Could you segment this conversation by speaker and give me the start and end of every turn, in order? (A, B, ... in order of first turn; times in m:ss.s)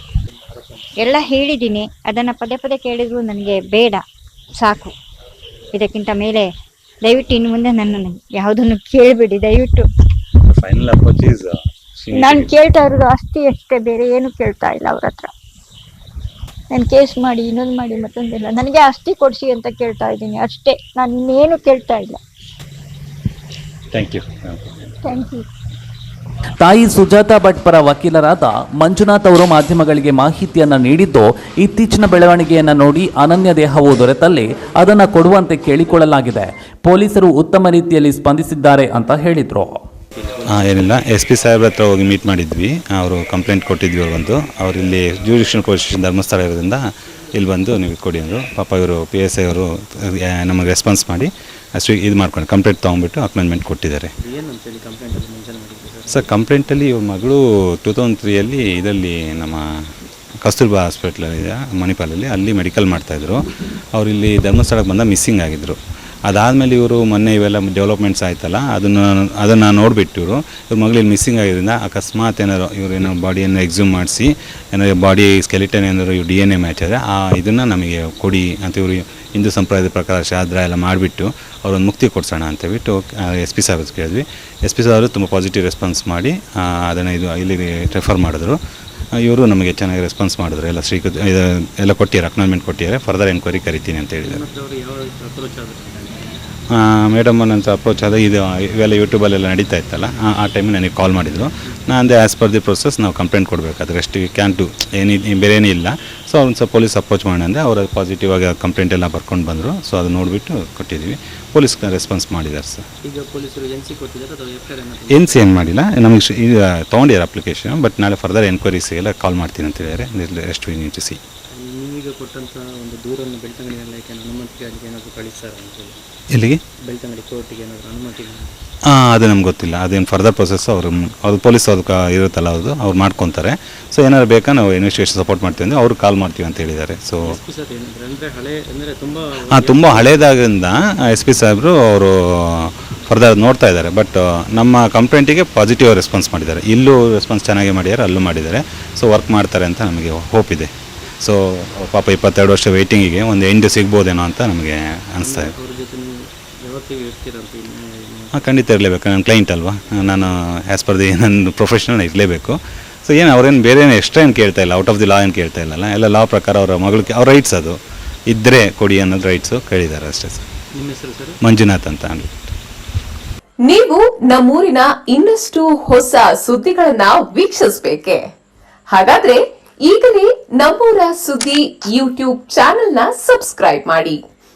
0:00.2-0:01.0 A
0:01.0-0:04.0 B
0:04.6-0:04.9 B
0:05.7-0:06.5 B
0:07.0-0:09.9 B
0:10.5-0:12.5 C
0:12.2-0:15.3 B
0:16.7-0:22.2 B
0:23.9-0:24.7 C
0:25.1-0:25.4 B
0:26.6-0:39.8 D
0:40.2-0:41.0 A
0:40.5-0:54.1 C
0:54.2-0:56.3 A
0:56.1-0:59.6 C
1:00.4-1:28.6 C
1:29.2-1:34.4 C
1:34.2-1:36.4 A
1:36.7-1:52.8 C
1:53.0-1:55.5 A
1:55.1-2:01.2 C
2:01.5-2:06.0 A
2:06.3-2:06.6 C
2:06.8-2:08.5 A
2:08.9-2:17.4 C
2:17.2-2:20.3 A
2:19.5-2:30.7 C
2:31.2-2:35.5 C
2:35.2-2:38.5 A
2:38.4-2:47.8 C
2:48.3-2:50.4 C
2:50.8-2:51.4 A
2:51.4-2:52.5 C
2:53.6-2:58.3 E
2:58.9-3:04.2 E